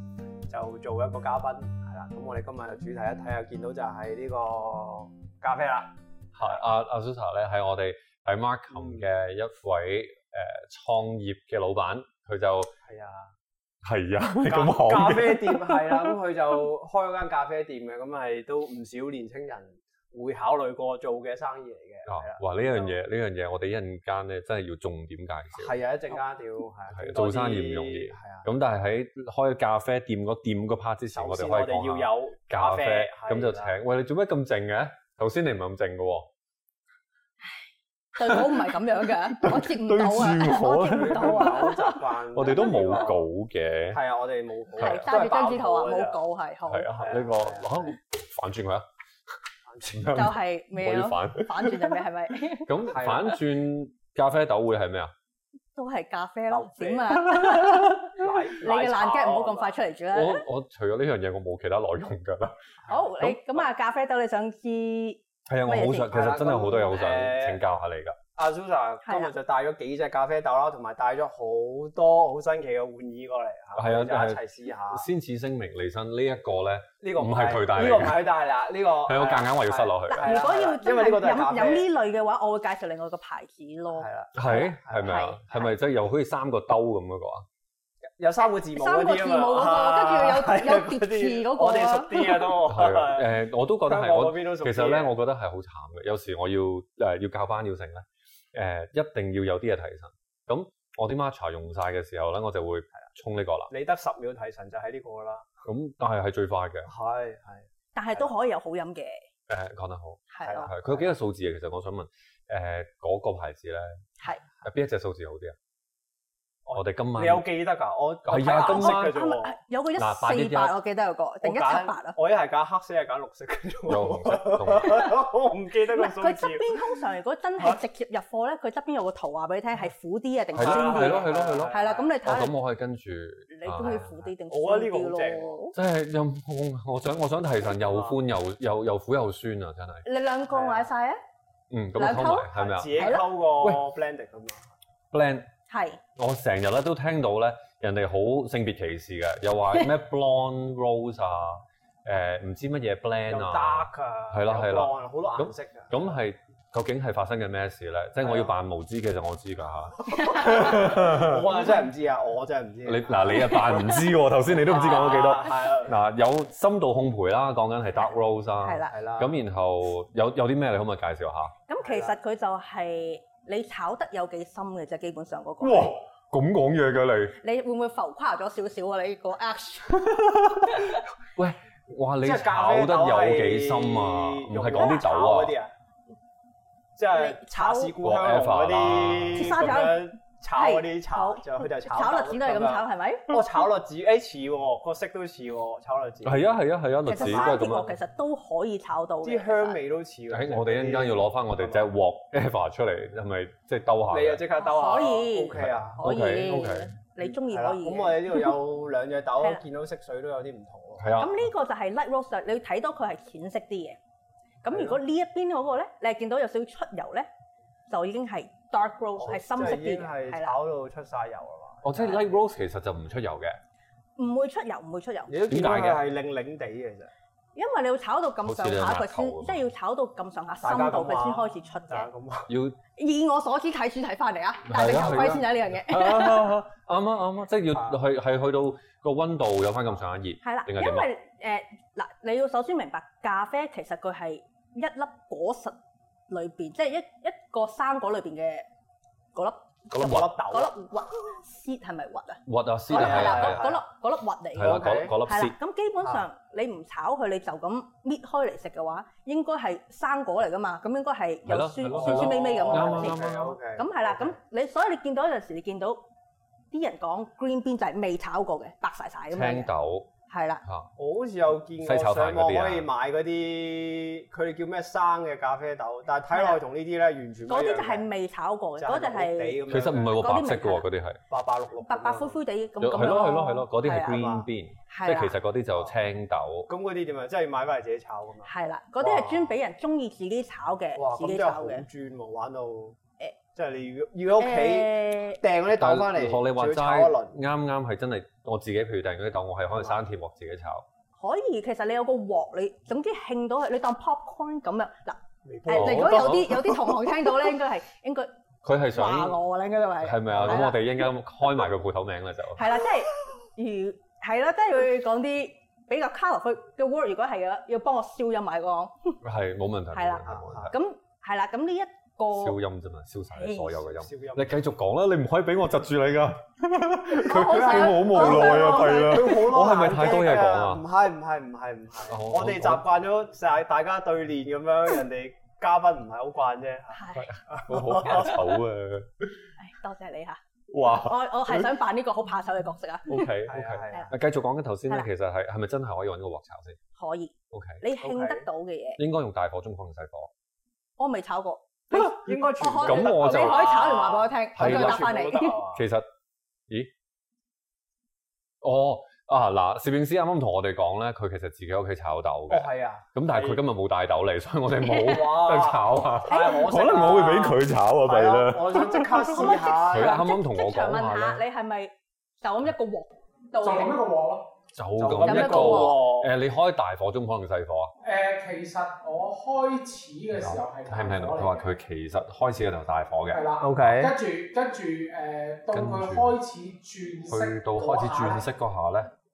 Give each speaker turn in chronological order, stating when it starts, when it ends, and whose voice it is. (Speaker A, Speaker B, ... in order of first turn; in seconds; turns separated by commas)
Speaker A: 0.5-6.6, Speaker B: 6.3-12.7, Speaker A: 8.7-9.1, Speaker A: 12.8-13.3, Speaker B: 13.8-16.1, Speaker A: 14.4-22.9, Speaker B: 22.1-25.8, Speaker A: 25.6-28.5, Speaker B: 26.9-36.3, Speaker A: 31.1-33.8, Speaker C: 38.2-43.1, Speaker B: 38.2-38.6, Speaker B: 39.3-41.6, Speaker A: 40.8-43.2, Speaker B: 42.3-44.0, Speaker A: 43.9-46.2, Speaker B: 44.8-45.1, Speaker C: 44.8-46.9, Speaker B: 46.7-48.9, Speaker A: 46.9-47.9, Speaker A: 49.6-50.2, Speaker B: 49.8-52.0, Speaker C: 50.1-52.7, Speaker B: 52.6-55.1, Speaker A: 52.9-53.4, Speaker C: 55.8-60.4, Speaker A: 56.5-59.7, Speaker B: 60.1-62.6, Speaker C: 62.9-66.2, Speaker B: 63.2-63.6, Speaker B: 65.5-68.2, Speaker A: 66.1-67.6, Speaker A: 68.3-75.1, Speaker C: 69.0-69.3, Speaker B: 73.8-78.3, Speaker A: 77.0-81.9, Speaker B: 79.1-80.4, Speaker C: 80.1-85.7, Speaker A: 83.9-85.2, Speaker B: 84.3-87.5, Speaker A: 88.2-95.1, Speaker C: 88.6-92.6, Speaker B: 92.7-103.7, Speaker A: 103.7-105.5, Speaker B: 105.7-106.9, Speaker A: 106.9-108.3, Speaker C: 108.0-109.2, Speaker B: 109.5-114.0, Speaker C: 110.3-110.7, Speaker A: 110.4-111.1, Speaker B: 114.6-115.5, Speaker A: 116.7-119.6, Speaker B: 116.7-117.5, Speaker B: 118.2-119.2, Speaker C: 118.4-122.2, Speaker B: 120.0-120.8, Speaker A: 121.4-126.8, Speaker B: 123.9-125.2, Speaker C: 125.9-132.5, Speaker B: 130.6-134.3, Speaker A: 130.6-132.1, Speaker C: 133.5-135.8, Speaker A: 134.5-135.5, Speaker B: 135.8-140.0, Speaker A: 137.9-138.2, Speaker C: 140.1-141.2, Speaker A: 140.5-140.9, Speaker B: 141.7-143.8, Speaker C: 141.9-143.3, Speaker A: 142.5-144.7, Speaker B: 145.1-145.5, Speaker C: 145.7-146.0, Speaker B: 146.2-161.5, Speaker A: 153.3-156.1, Speaker A: 158.2-158.5, Speaker C: 160.2-160.4, Speaker A: 160.2-163.7, Speaker B: 162.8-171.5, Speaker C: 163.4-164.2, Speaker A: 164.5-166.0, Speaker C: 168.6-168.9, Speaker A: 168.9-169.4, Speaker C: 171.7-175.9, Speaker A: 171.8-172.2, Speaker B: 175.6-177.4, Speaker C: 177.4-180.1, Speaker B: 180.0-185.6, Speaker C: 180.7-181.0, Speaker A: 182.2-185.7, Speaker C: 184.7-185.3, Speaker A: 187.0-196.5, Speaker C: 187.1-187.9, Speaker B: 188.0-189.6, Speaker C: 189.3-193.4, Speaker B: 196.2-197.9, Speaker C: 197.1-199.8, Speaker A: 197.1-197.7, Speaker A: 199.2-201.9, Speaker B: 200.3-204.4, Speaker A: 204.1-206.0, Speaker C: 204.6-208.5, Speaker B: 205.5-207.0, Speaker A: 207.3-211.1, Speaker B: 211.0-211.5, Speaker C: 211.2-214.0, Speaker C: 214.6-217.3, Speaker A: 214.7-215.0, Speaker C: 217.9-220.6, Speaker A: 219.2-222.4, Speaker B: 221.8-223.6, Speaker C: 224.2-225.4, Speaker A: 225.3-227.1, Speaker B: 225.5-226.0, Speaker C: 227.6-232.1, Speaker B: 228.4-229.7, Speaker A: 230.6-232.5, Speaker B: 232.5-232.8, Speaker C: 233.0-236.6, Speaker B: 234.7-241.1, Speaker A: 237.7-238.0, Speaker C: 240.4-245.8, Speaker C: 246.3-248.7, Speaker C: 249.3-266.0, Speaker B: 249.9-250.3, Speaker A: 249.9-250.7, Speaker B: 252.5-253.7, Speaker A: 252.9-253.8, Speaker B: 254.5-255.6, Speaker A: 254.6-255.2, Speaker B: 261.5-263.6, Speaker A: 261.9-264.4, Speaker C: 266.7-269.7, Speaker B: 269.3-270.1, Speaker C: 270.3-270.6, Speaker A: 271.0-278.1, Speaker B: 271.8-272.9, Speaker C: 276.3-276.6, Speaker C: 277.5-280.9, Speaker A: 278.8-280.2, Speaker B: 279.7-281.2, Speaker A: 281.3-282.4, Speaker C: 281.9-284.3, Speaker B: 282.8-286.7, Speaker A: 284.1-284.5, Speaker C: 284.9-285.4, Speaker A: 286.7-289.6, Speaker C: 288.4-291.9, Speaker A: 290.9-293.0, Speaker A: 293.5-297.4, Speaker C: 294.4-295.4, Speaker B: 295.7-300.9, Speaker C: 301.2-308.3, Speaker A: 305.4-306.4, Speaker B: 305.7-306.7, Speaker B: 308.6-309.4, Speaker C: 308.9-310.8, Speaker B: 310.0-312.8, Speaker A: 310.3-310.8, Speaker C: 312.6-319.2, Speaker B: 319.2-320.8, Speaker C: 319.9-322.6, Speaker A: 320.3-320.8, Speaker B: 322.3-330.9, Speaker C: 323.3-323.9, Speaker A: 323.9-324.6, Speaker C: 327.2-329.5, Speaker A: 327.2-338.5, Speaker B: 332.1-332.9, Speaker C: 336.9-337.3, Speaker B: 337.2-339.3, Speaker C: 339.6-343.3, Speaker B: 340.7-341.7, Speaker B: 343.1-346.8, Speaker A: 343.5-344.1, Speaker C: 347.0-349.0, Speaker B: 347.5-347.8, Speaker A: 348.0-348.4, Speaker B: 349.0-350.3, Speaker C: 351.0-355.6, Speaker A: 351.9-355.8, Speaker B: 352.8-353.7, Speaker B: 354.6-355.2, Speaker B: 355.7-356.1, Speaker B: 358.6-371.4, Speaker A: 362.5-363.6, Speaker C: 364.8-365.1, Speaker A: 365.0-370.2, Speaker C: 366.3-366.8, Speaker C: 369.2-373.9, Speaker D: 373.6-374.5, Speaker B: 374.7-377.9, Speaker A: 375.0-376.3, Speaker C: 375.2-376.1, Speaker D: 378.0-381.7, Speaker B: 380.3-383.5, Speaker D: 383.3-388.5, Speaker A: 383.6-384.2, Speaker B: 385.7-386.4, Speaker B: 387.3-389.1